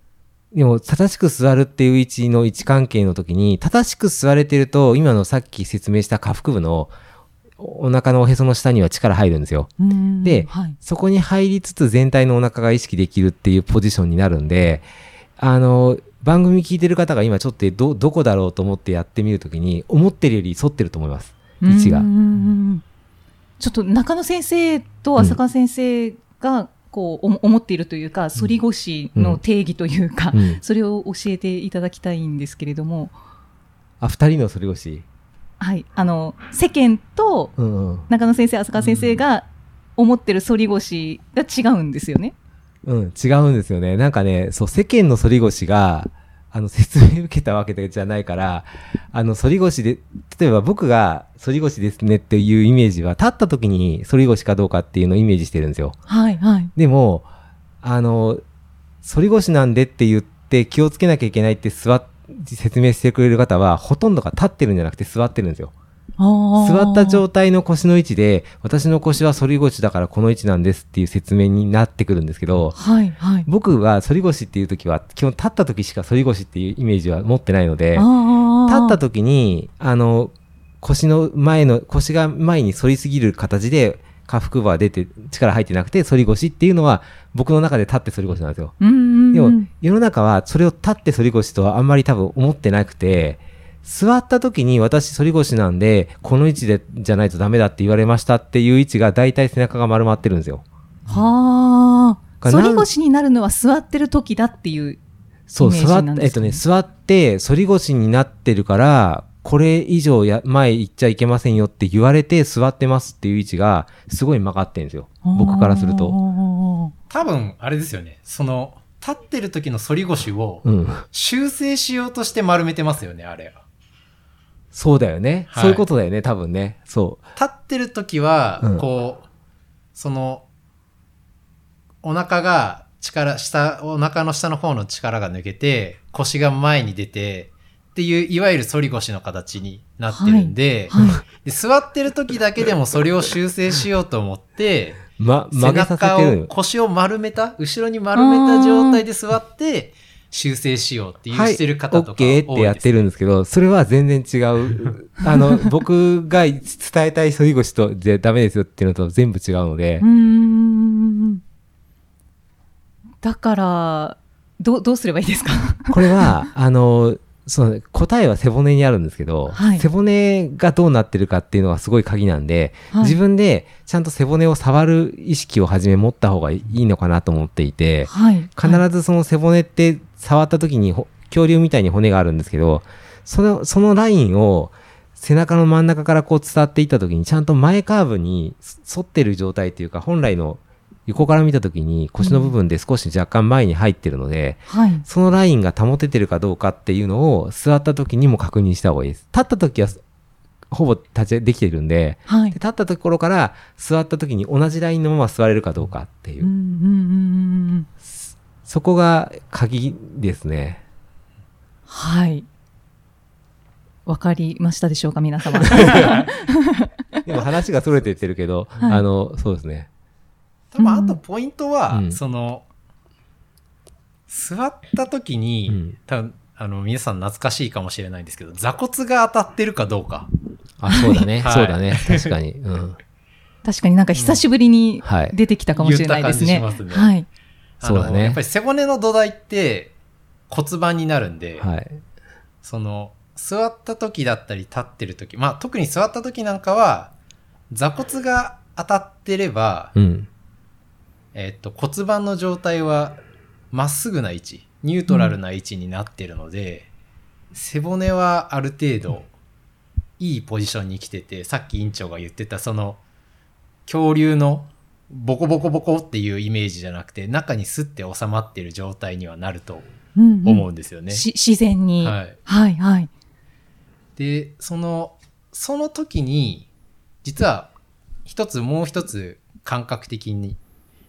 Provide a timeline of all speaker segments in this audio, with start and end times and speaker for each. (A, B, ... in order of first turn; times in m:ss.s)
0:00.5-0:06.9 A
0:07.6-0:09.7 A
0:09.8-0:10.8 B
0:10.2-0:14.8 A
0:15.4-0:22.1 A
0:21.6-0:22.8 B
0:23.6-0:33.1 B
0:29.2-0:29.4 A
0:30.3-0:30.6 A
0:34.0-0:35.0 A
0:35.6-0:37.5 B
0:37.6-0:38.1 A
0:38.1-0:42.3 B
0:42.8-0:56.0 A
0:56.1-0:56.7 B
0:56.8-0:57.3 A
0:57.8-0:58.4 A
0:59.0-1:05.7 A
1:06.2-1:07.2 B
1:06.6-1:12.8 A
1:12.7-1:13.5 B
1:13.4-1:18.1 A
1:18.0-1:19.0 B
1:18.6-1:28.8 A
1:28.8-1:29.7 B
1:29.3-1:40.6 A
1:41.1-1:45.0 B
1:42.4-1:42.9 A
1:45.5-1:56.2 A
1:45.6-1:46.6 B
1:55.2-1:56.9 B
1:57.1-2:03.6 C
2:00.6-2:01.0 A
2:04.7-2:07.2 A
2:05.5-2:05.8 C
2:07.4-2:09.2 C
2:09.9-2:10.4 C
2:12.0-2:32.9 C
2:20.1-2:21.2 B
2:25.2-2:26.5 A
2:28.1-2:29.0 B
2:31.3-2:40.0 A
2:40.0-2:41.4 B
2:43.2-2:46.4 B
2:45.9-3:20.0 A
2:49.5-2:49.9 B
2:52.9-2:53.2 B
2:58.0-2:58.8 B
3:12.2-3:12.5 B
3:14.7-3:15.0 B
3:20.7-3:26.5 A
3:22.3-3:22.6 B
3:26.4-3:27.9 B
3:28.0-3:30.8 A
3:31.9-3:32.5 B
3:34.0-3:37.2 B
3:37.2-3:39.9 A
3:38.8-3:39.0 B
3:40.7-3:42.6 C
3:40.8-3:41.2 B
3:41.9-3:42.2 A
3:44.3-3:50.3 C
3:45.7-3:46.0 A
3:50.8-3:53.0 A
3:50.9-3:51.3 B
3:51.4-3:52.3 C
3:53.6-3:57.3 B
3:54.1-3:54.4 C
3:55.0-3:55.4 A
3:55.8-3:57.1 C
3:57.8-3:59.9 C
3:57.8-3:58.4 A
4:00.5-4:01.7 C
4:01.6-4:02.0 A
4:02.6-4:07.1 C
4:07.7-4:09.9 C
4:09.9-4:10.3 A
4:11.3-4:16.9 C
4:15.1-4:15.3 B
4:17.5-4:19.3 C
4:20.2-4:23.0 C
4:23.9-4:29.9 C
4:30.1-4:33.1 B
4:30.4-4:31.3 C
4:32.0-4:32.4 C
4:34.2-4:36.7 C
4:37.2-4:37.7 C
4:38.2-4:40.6 C